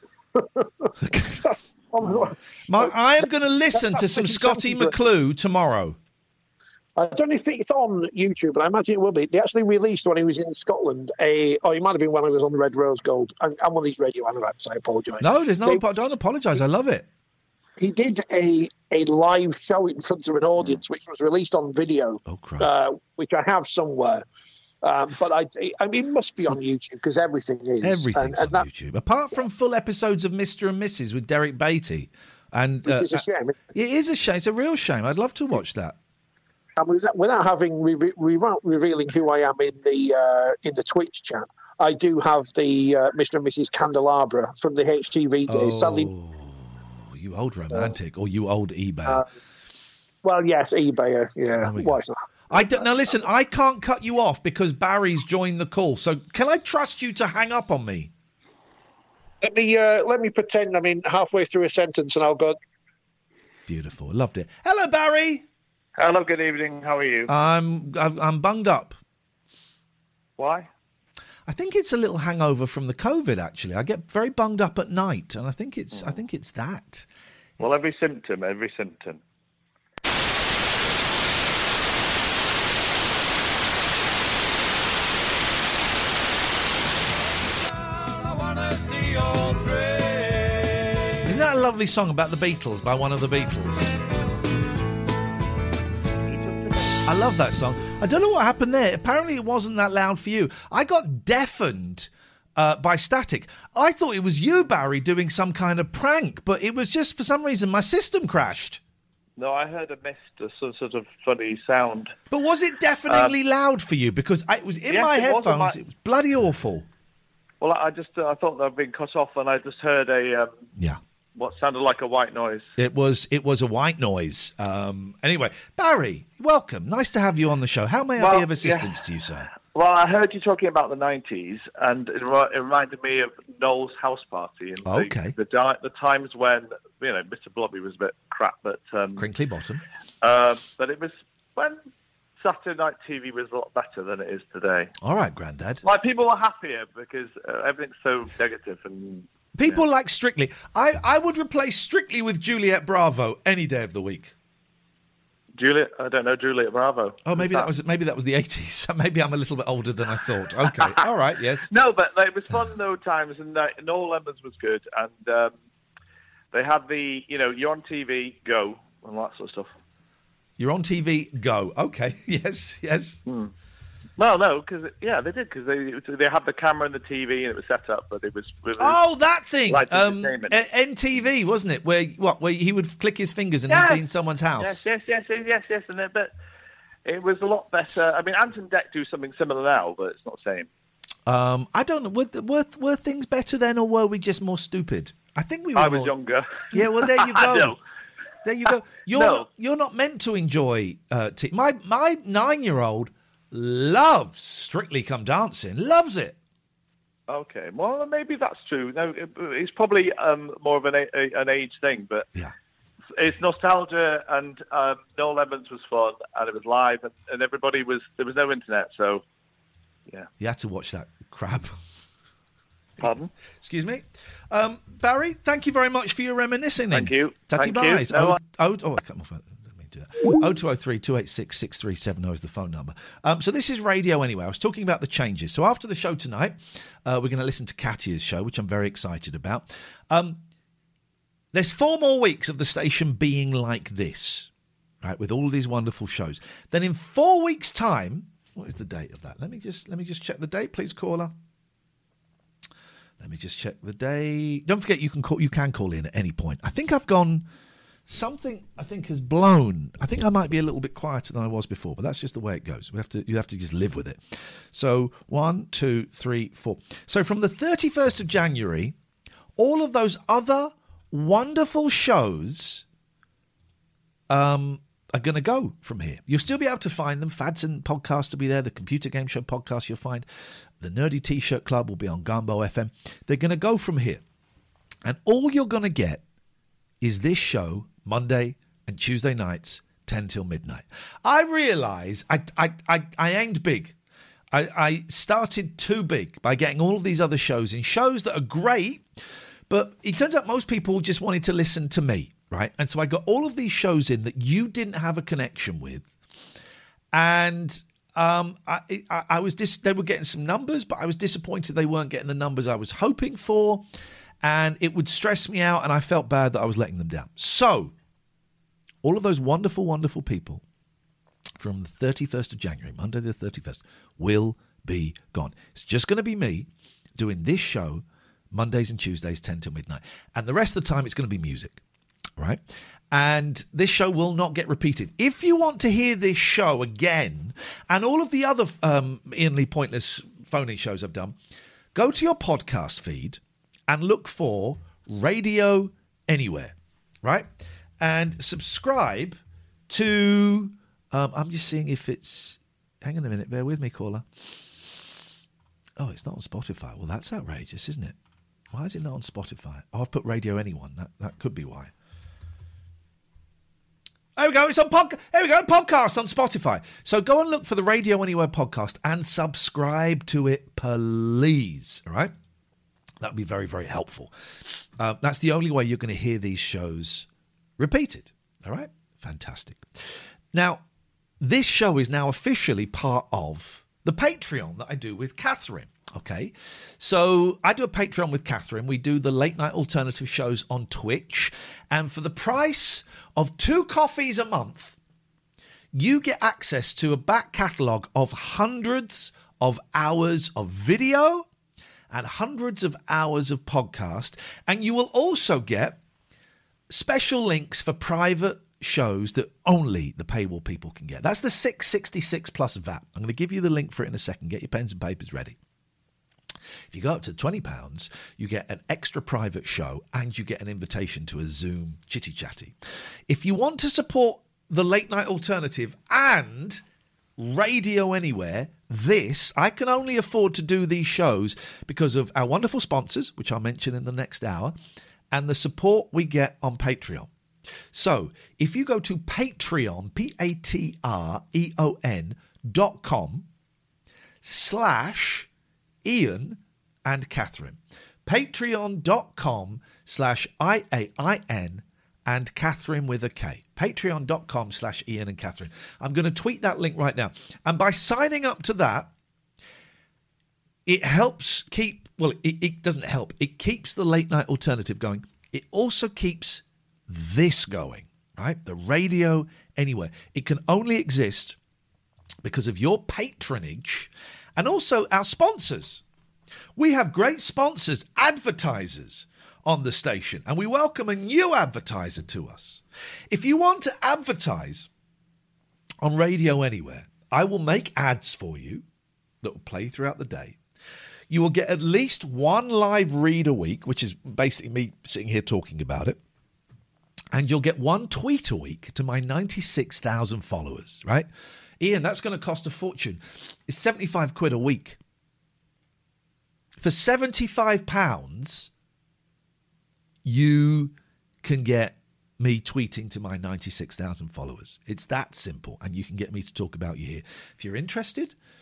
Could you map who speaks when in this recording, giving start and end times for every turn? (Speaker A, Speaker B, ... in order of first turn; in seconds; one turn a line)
Speaker A: 0.3-4.9
Speaker B: 1.0-1.4
Speaker B: 2.7-6.0
Speaker A: 7.0-15.9
Speaker B: 15.2-17.1
Speaker A: 17.8-24.2
Speaker B: 22.3-22.8
Speaker A: 24.8-28.7
Speaker B: 27.8-36.0
Speaker A: 32.9-33.6
Speaker A: 36.8-46.1
Speaker B: 45.5-49.2
Speaker A: 50.2-53.2
Speaker B: 51.6-52.0
Speaker B: 52.5-58.1
Speaker A: 59.4-62.6
Speaker B: 63.7-65.5
Speaker C: 66.0-67.3
Speaker B: 67.3-69.0
Speaker C: 70.4-70.7
Speaker B: 71.5-77.1
Speaker C: 75.9-76.2
Speaker C: 77.6-79.2
Speaker C: 88.3-90.7
Speaker B: 91.2-94.0
Speaker C: 96.4-97.0
Speaker B: 97.0-108.8
Speaker C: 109.4-112.1
Speaker B: 112.3-116.9
Speaker C: 113.1-113.4
Speaker C: 114.9-115.8
Speaker C: 117.6-120.6
Speaker C: 121.3-122.7
Speaker B: 122.8-129.5
Speaker C: 128.2-128.9
Speaker C: 129.5-139.3
Speaker B: 134.8-135.4
Speaker B: 139.2-139.8
Speaker C: 140.2-141.8
Speaker C: 142.4-144.9
Speaker B: 145.0-145.8
Speaker C: 145.8-149.8
Speaker B: 149.6-154.3
Speaker C: 155.6-157.7
Speaker B: 157.2-161.7
Speaker C: 161.7-165.5
Speaker C: 166.5-169.7
Speaker B: 170.6-173.2
Speaker C: 173.3-173.5
Speaker C: 174.2-179.0
Speaker B: 178.8-184.9
Speaker C: 179.7-180.6
Speaker C: 183.7-184.0
Speaker C: 184.6-186.3
Speaker C: 187.1-190.7
Speaker B: 191.3-196.1
Speaker C: 195.8-197.8
Speaker B: 196.7-197.8
Speaker B: 198.4-206.4
Speaker C: 199.1-199.5
Speaker C: 207.3-212.3
Speaker C: 213.2-219.2
Speaker B: 220.4-221.8
Speaker C: 223.0-223.3
Speaker B: 223.0-240.4
Speaker C: 226.9-228.4
Speaker B: 241.5-244.5
Speaker B: 245.0-251.3
Speaker B: 253.2-257.4
Speaker B: 258.1-268.9
Speaker B: 269.6-272.9
Speaker B: 274.3-280.3
Speaker B: 280.8-284.2
Speaker B: 285.0-286.2
Speaker B: 287.0-293.9
Speaker B: 294.5-299.1
Speaker B: 299.7-306.1
Speaker B: 307.1-313.8
Speaker B: 314.4-317.9
Speaker B: 319.0-320.6
Speaker B: 321.6-331.8
Speaker B: 332.4-341.4
Speaker B: 341.9-354.9
Speaker B: 356.0-358.2
Speaker B: 358.7-361.9
Speaker B: 364.4-372.3
Speaker B: 373.2-379.9
Speaker B: 380.5-380.8
Speaker B: 381.4-395.0
Speaker B: 395.9-401.5
Speaker B: 402.1-406.0
Speaker B: 406.9-415.6
Speaker B: 416.9-422.8
Speaker B: 423.3-426.8
Speaker B: 427.4-434.8
Speaker B: 435.3-437.3
Speaker B: 437.9-443.5
Speaker B: 444.4-445.5
Speaker B: 446.0-459.1
Speaker B: 460.9-471.6
Speaker B: 472.4-476.0
Speaker B: 476.8-484.9
Speaker B: 486.0-488.8
Speaker B: 489.4-490.6
Speaker B: 491.3-496.2
Speaker B: 497.3-501.3
Speaker B: 501.8-505.0
Speaker B: 506.8-508.7
Speaker B: 510.2-518.4